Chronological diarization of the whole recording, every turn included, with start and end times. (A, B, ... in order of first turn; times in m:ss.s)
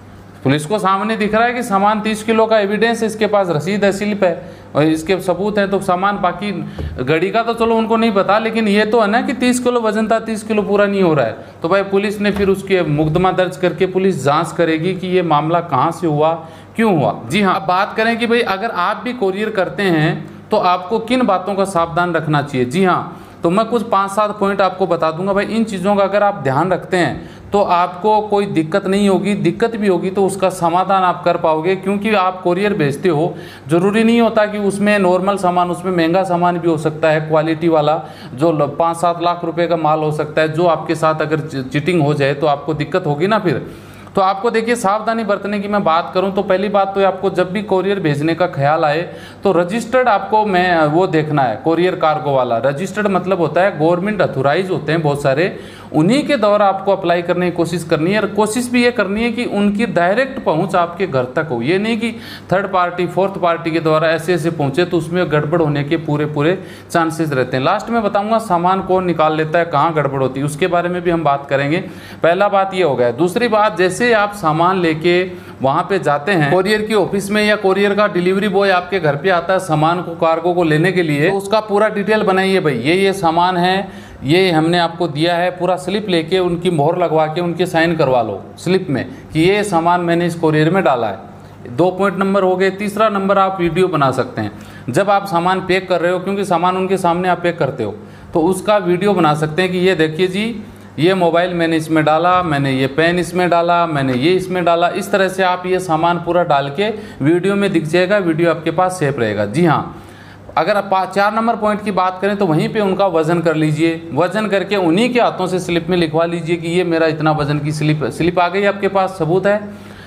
0:00.4-1:50.0 A
1:50.6-1:59.6 A